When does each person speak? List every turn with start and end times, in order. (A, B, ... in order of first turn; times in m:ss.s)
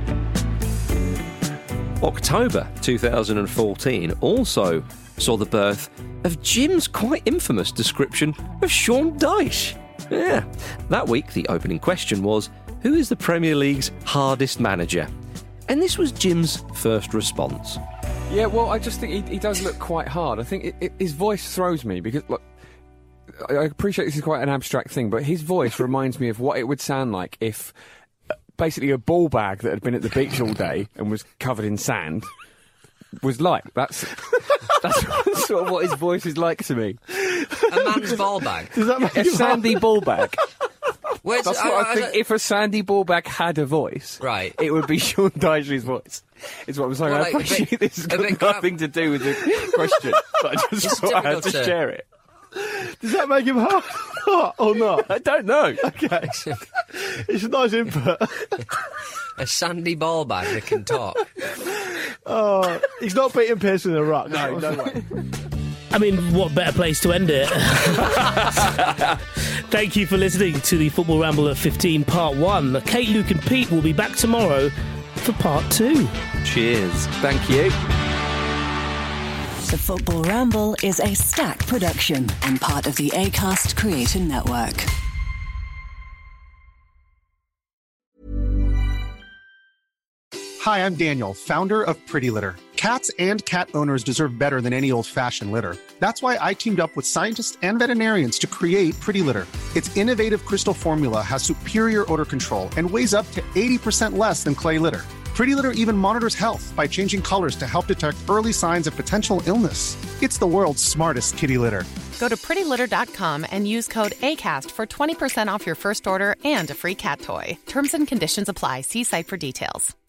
0:02.0-0:15.1 A
0:15.7-0:17.8 A
0:18.3-0:22.4 B
0:23.4-0:27.7 B
0:28.6-0:32.3 B
0:33.2-0:37.0 B
0:37.7-0:38.7 C
0:37.7-0:40.0 D
0:39.1-0:40.4 B
0:41.2-0:42.2 C
0:41.4-0:52.0 B
0:44.2-0:44.6 C
0:47.0-0:48.8 C
0:50.8-0:51.8 C
0:52.6-0:55.1 D
0:55.0-0:55.8 B
0:55.8-0:58.5 D
0:59.4-1:01.3 C
1:02.2-1:05.0 D
1:04.4-1:04.6 B
1:05.9-1:08.7 E
1:09.7-1:16.1 E
1:16.4-1:17.2 A
1:19.6-1:24.9 F
1:30.6-1:51.9 G
1:52.2-1:59.9 H